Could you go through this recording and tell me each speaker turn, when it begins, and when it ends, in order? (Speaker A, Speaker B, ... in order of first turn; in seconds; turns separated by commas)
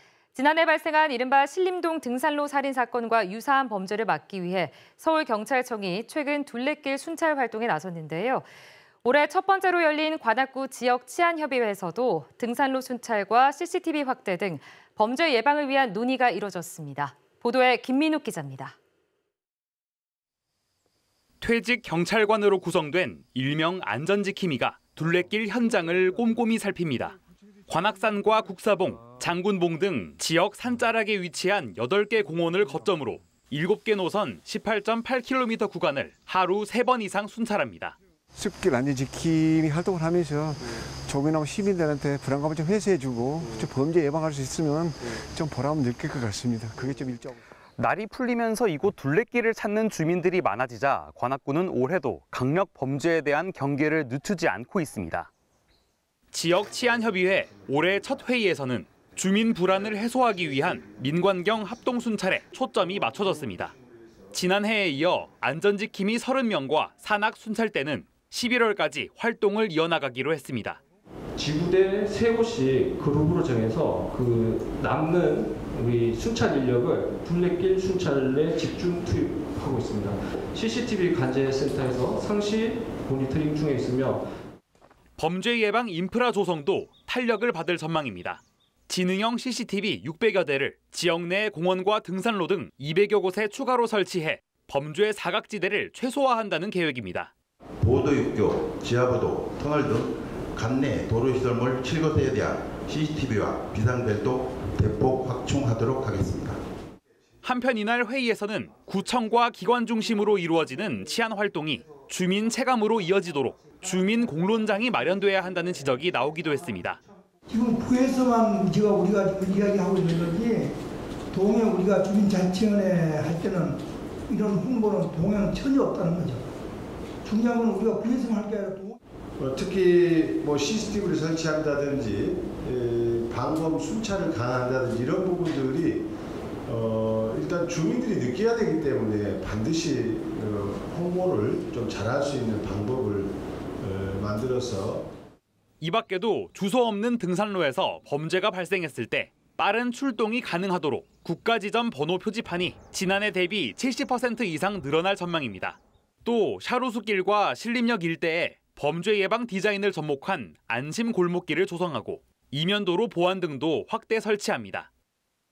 Speaker A: 0.3-8.5, Speaker A: 9.0-18.8, Speaker B: 21.4-37.9, Speaker C: 38.3-47.4, Speaker B: 47.8-55.3, Speaker B: 56.3-63.7, Speaker B: 64.3-70.8, Speaker D: 71.3-84.2, Speaker B: 85.2-97.3, Speaker E: 97.8-106.6, Speaker B: 107.4-117.0, Speaker F: 117.5-120.8, Speaker F: 121.3-126.5, Speaker F: 127.2-129.0, Speaker G: 129.4-136.1, Speaker G: 136.7-145.1, Speaker B: 145.8-164.9